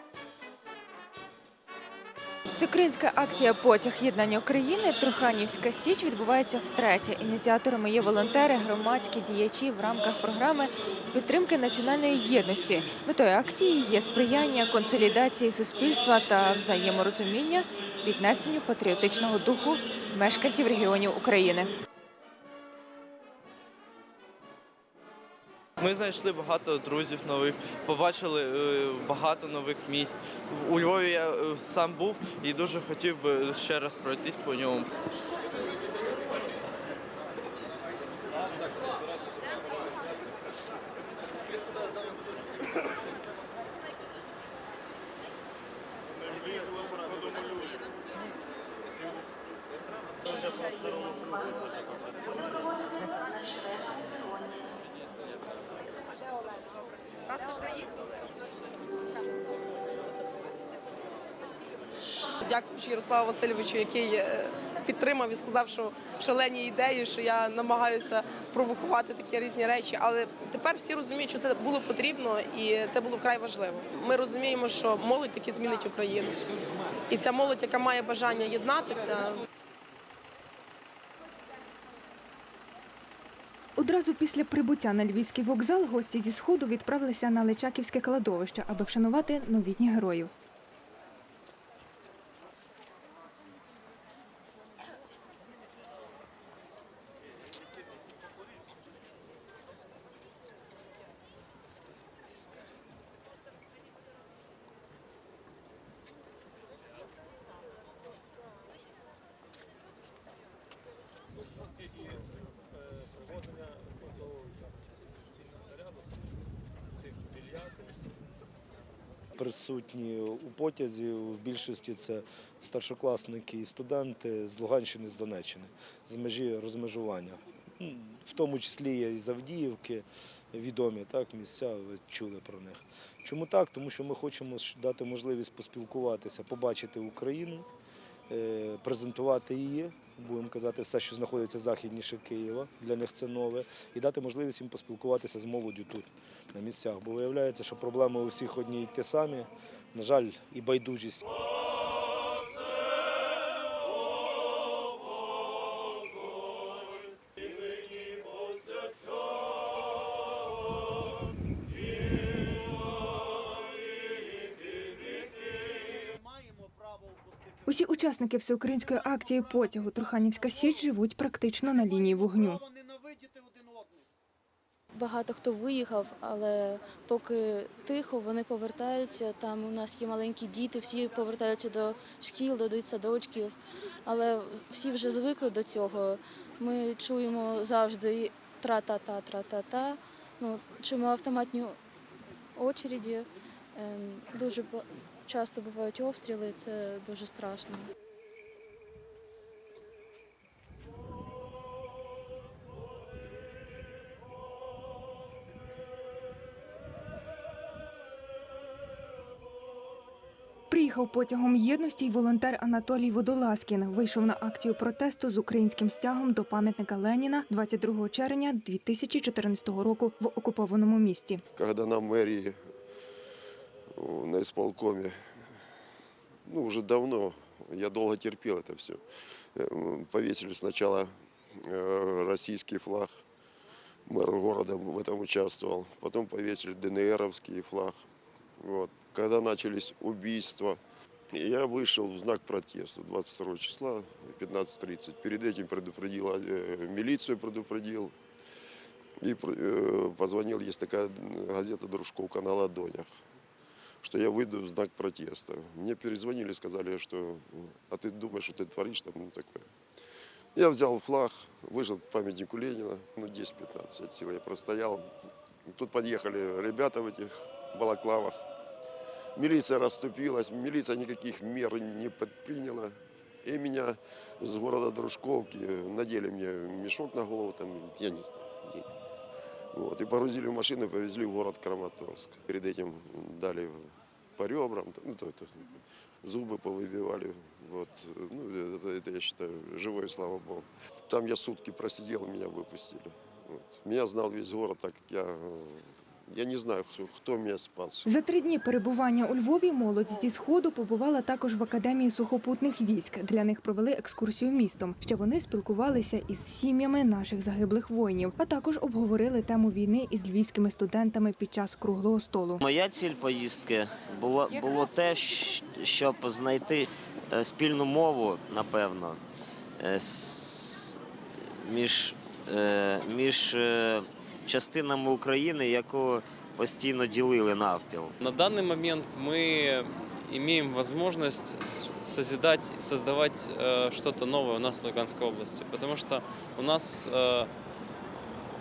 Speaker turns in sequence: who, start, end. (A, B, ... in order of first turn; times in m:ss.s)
0:02.5-0:21.7 A
0:25.8-0:34.9 B
0:50.4-0:50.9 C
1:02.4-1:16.4 D
1:17.1-1:19.4 D
1:23.8-1:30.3 A
1:59.4-2:17.7 E
2:18.3-2:31.3 E
2:47.7-2:52.6 A
2:54.9-3:11.8 F
3:12.6-3:17.9 F
3:30.7-3:41.4 A
3:41.6-3:42.6 G
3:44.0-3:45.2 G
3:46.4-3:49.0 G
3:49.6-3:53.2 G
3:54.1-3:58.0 G
3:58.6-4:00.8 G
4:01.3-4:08.2 G
4:09.2-4:13.1 G
4:14.0-4:19.7 G
4:20.6-4:25.1 G
4:25.7-4:28.5 G
4:29.4-4:38.9 G
4:39.7-4:58.1 G
4:58.1-5:12.6 A
5:12.6-5:19.2 H
5:19.8-5:28.1 H
5:28.2-5:37.5 C